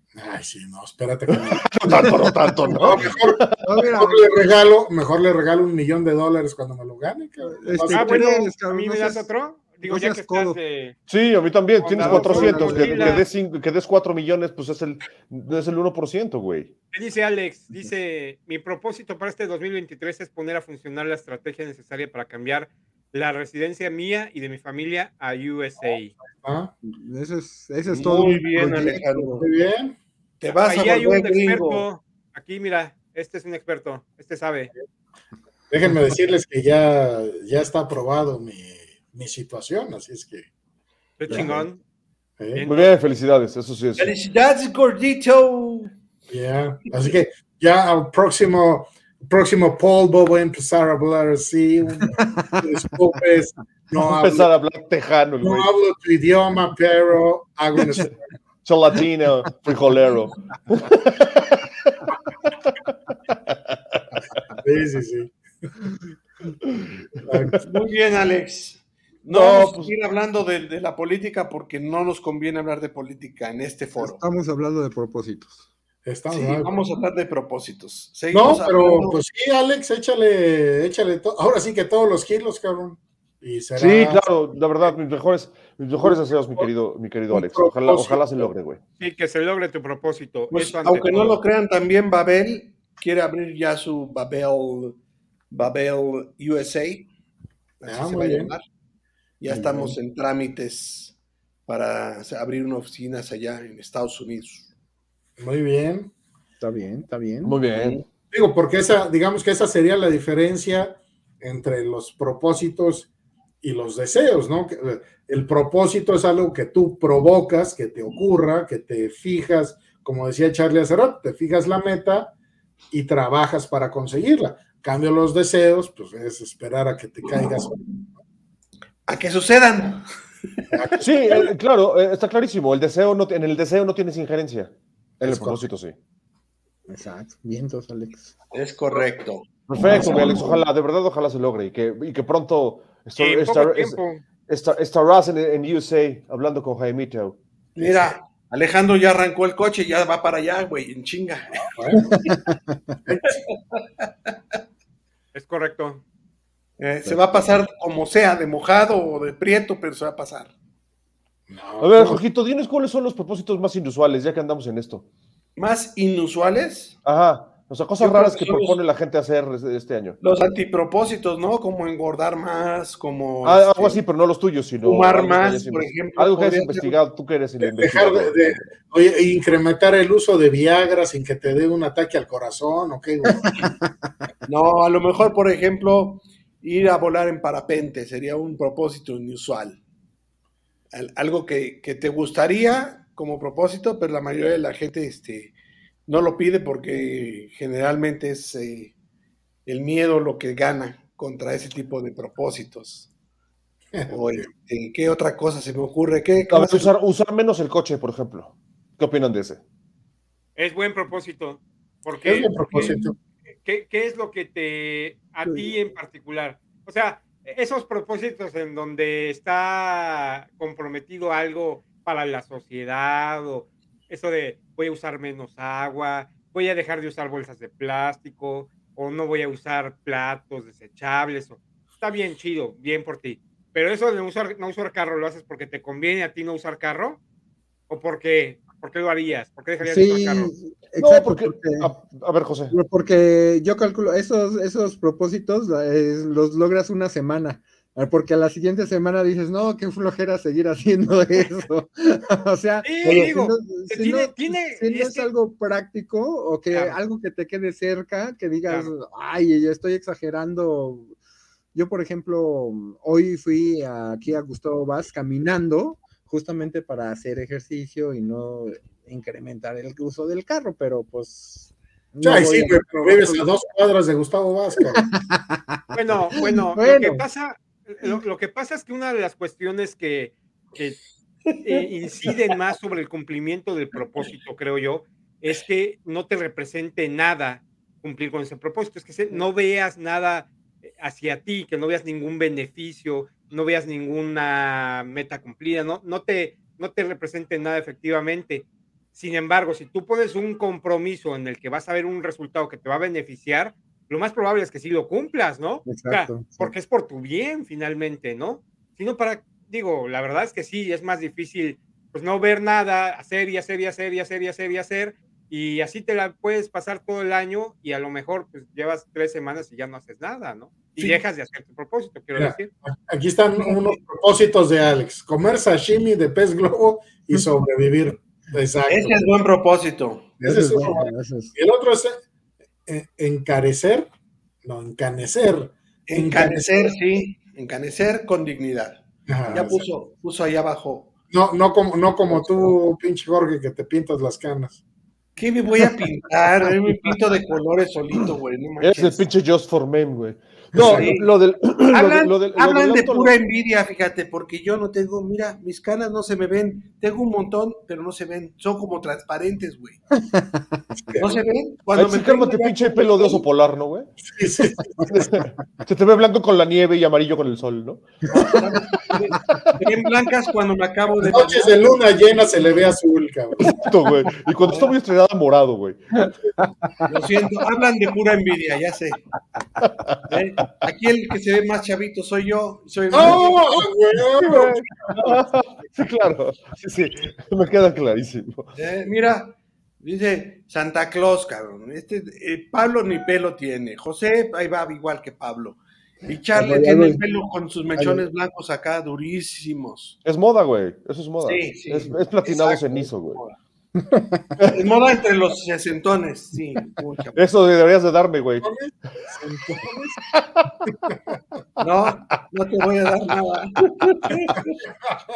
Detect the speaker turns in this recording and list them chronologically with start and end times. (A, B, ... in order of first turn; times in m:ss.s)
0:00.2-0:02.1 A
0:01.3-0:03.6 B
0:02.7-0:08.4 A
0:03.5-0:04.4 C
0:07.5-0:09.3 C
0:07.9-0:11.0 D
0:09.8-0:10.6 C
0:11.1-0:16.7 B
0:11.8-0:13.2 D
0:12.0-0:13.2 C
0:16.9-0:26.1 D
0:26.4-0:26.7 A
0:26.9-0:29.5 C
0:27.9-0:29.4 E
0:29.4-0:30.0 A
0:30.4-0:31.8 E
0:30.6-0:34.7 D
0:35.7-0:40.5 A
0:41.2-0:41.8 D
0:41.3-0:41.7 A
0:42.4-0:42.6 A
0:42.5-0:42.9 D
0:42.6-0:44.1 B
0:44.0-0:45.9 E
0:46.3-0:54.5 A
0:52.1-0:52.6 C
0:54.0-0:55.7 B
0:55.4-0:58.2 A
0:58.6-1:02.0 B
1:03.3-1:04.0 B
1:04.6-1:05.7 A
1:07.2-1:07.6 A
1:07.6-1:14.2 E
1:09.3-1:09.9 B
1:14.0-1:15.6 C
1:16.0-1:16.7 A
1:16.3-1:19.2 E
1:18.3-1:24.3 A
1:23.8-1:28.8 B
1:26.0-1:26.7 A
1:27.3-1:28.4 A
1:29.0-1:31.4 D
1:30.5-1:35.0 E
1:35.5-1:37.1 E
1:37.8-1:38.6 E
1:37.9-1:38.5 A
1:39.4-1:41.1 E
1:39.7-1:39.9 C
1:41.7-1:44.7 E
1:45.4-1:46.1 A
1:46.6-1:47.6 C
1:47.4-1:48.0 B
1:47.8-1:48.0 E
1:48.3-1:53.1 A
1:53.6-2:02.4 A
2:02.9-2:08.0 A
2:09.1-2:10.7 E
2:10.7-2:11.2 A
2:11.0-2:16.0 B
2:15.2-2:15.6 A
2:16.9-2:18.3 C
2:18.5-2:19.5 E
2:19.7-2:28.2 B
2:20.0-2:20.5 E
2:23.2-2:24.2 D
2:27.8-2:31.7 E
2:31.6-2:32.2 A
2:32.1-2:32.9 C
2:33.0-2:33.4 A
2:33.3-2:34.1 E
2:35.3-2:36.0 D
2:36.8-2:40.5 E
2:37.1-2:37.4 B
2:41.5-2:42.2 A
2:41.8-2:45.0 B
2:45.6-2:47.0 E
2:47.0-2:50.2 B
2:48.0-2:48.8 E
2:50.2-2:54.0 E
2:53.4-2:58.7 B
2:54.8-2:57.0 E
2:57.6-3:03.7 A
3:03.3-3:03.9 C
3:04.5-3:09.8 E
3:10.9-3:15.5 E
3:16.1-3:18.9 E
3:19.7-3:23.1 E
3:23.9-3:24.4 A
3:24.1-3:26.9 E
3:26.5-3:29.6 B
3:30.6-3:32.9 D
3:32.2-3:33.2 A
3:33.6-3:57.2 D
3:57.9-4:00.5 D
3:59.8-4:01.9 C
4:01.0-4:02.8 B
4:02.7-4:21.2 C
4:12.8-4:15.3 D
4:16.7-4:17.0 D
4:18.7-4:18.9 D
4:21.7-4:33.5 C
4:32.2-4:35.0 A
4:34.9-4:37.2 C
4:35.9-4:41.0 D
4:41.6-5:22.7 D
5:05.9-5:06.7 C
5:22.4-5:29.3 A
5:28.9-5:30.3 E
5:30.4-5:32.2 A
5:30.4-5:31.5 C
5:32.9-5:34.1 A
5:34.6-5:37.0 A
5:36.1-5:41.1 E
5:39.3-5:39.9 A
5:41.3-5:44.8 A
5:45.4-5:49.2 E
5:48.8-5:53.4 B
5:50.8-6:00.0 E
6:00.2-6:00.8 C
6:01.0-6:01.4 A
6:01.2-6:03.4 E
6:01.9-6:04.1 B
6:04.3-6:05.5 A
6:05.1-6:08.1 B
6:08.4-6:11.9 E
6:11.2-6:13.8 A
6:13.6-6:16.0 B
6:16.2-6:17.1 C
6:17.1-6:19.3 E
6:19.8-6:20.2 B
6:20.3-6:23.8 E
6:23.1-6:25.5 A
6:24.4-6:28.7 B
6:28.8-6:40.2 E
6:36.5-6:37.2 C
6:38.0-6:38.2 C
6:40.2-6:43.4 B
6:41.4-6:43.6 E
6:44.1-6:44.5 C
6:44.7-6:47.5 E
6:47.4-6:48.7 B
6:48.6-6:50.2 A
6:50.3-6:50.9 B
6:51.8-6:54.8 E